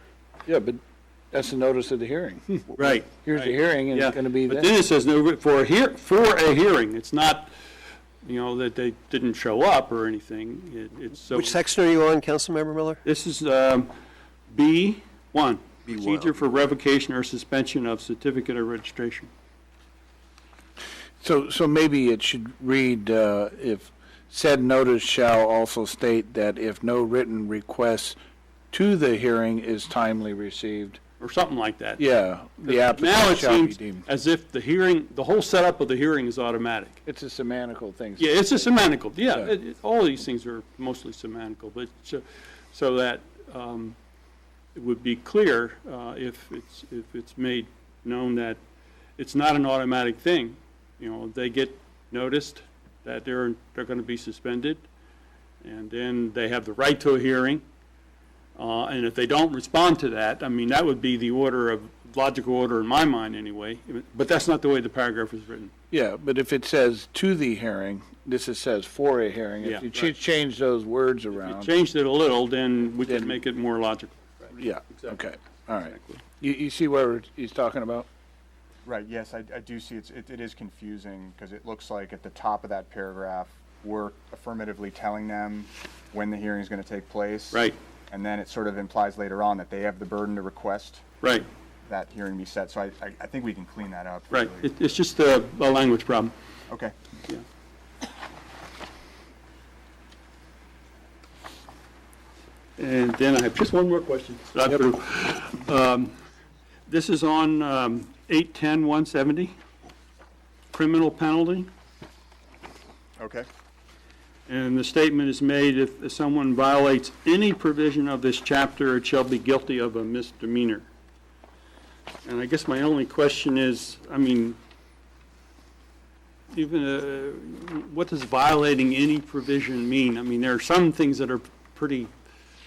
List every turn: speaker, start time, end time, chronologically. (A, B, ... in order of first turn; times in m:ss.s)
0:00.4-0:00.8 A
0:01.3-0:04.7 A
0:02.8-0:07.5 B
0:08.2-0:11.6 B
0:11.3-0:13.0 C
0:13.0-0:13.9 B
0:14.5-0:19.3 B
0:15.9-0:16.5 C
0:21.2-0:28.2 A
0:28.7-0:31.0 A
0:31.2-0:32.0 B
0:32.0-0:34.0 A
0:32.6-0:37.0 B
0:37.0-0:38.8 A
0:38.2-0:44.0 B
0:44.7-0:48.6 B
0:49.2-0:54.8 B
0:55.6-0:57.6 B
0:58.6-1:05.7 B
1:05.9-1:11.7 A
1:09.6-1:10.2 B
1:11.4-1:15.2 B
1:13.0-1:13.4 A
1:14.5-1:18.1 A
1:15.9-1:16.2 B
1:18.8-1:31.0 D
1:27.5-1:27.8 B
1:31.2-1:31.5 B
1:31.8-1:34.9 D
1:34.3-1:36.3 B
1:36.7-1:36.9 D
1:42.8-1:46.1 B
1:46.9-1:49.5 B
1:50.7-1:51.7 B
1:53.2-1:53.5 D
1:54.5-2:00.8 B
2:02.2-2:04.6 B
2:06.5-2:12.1 B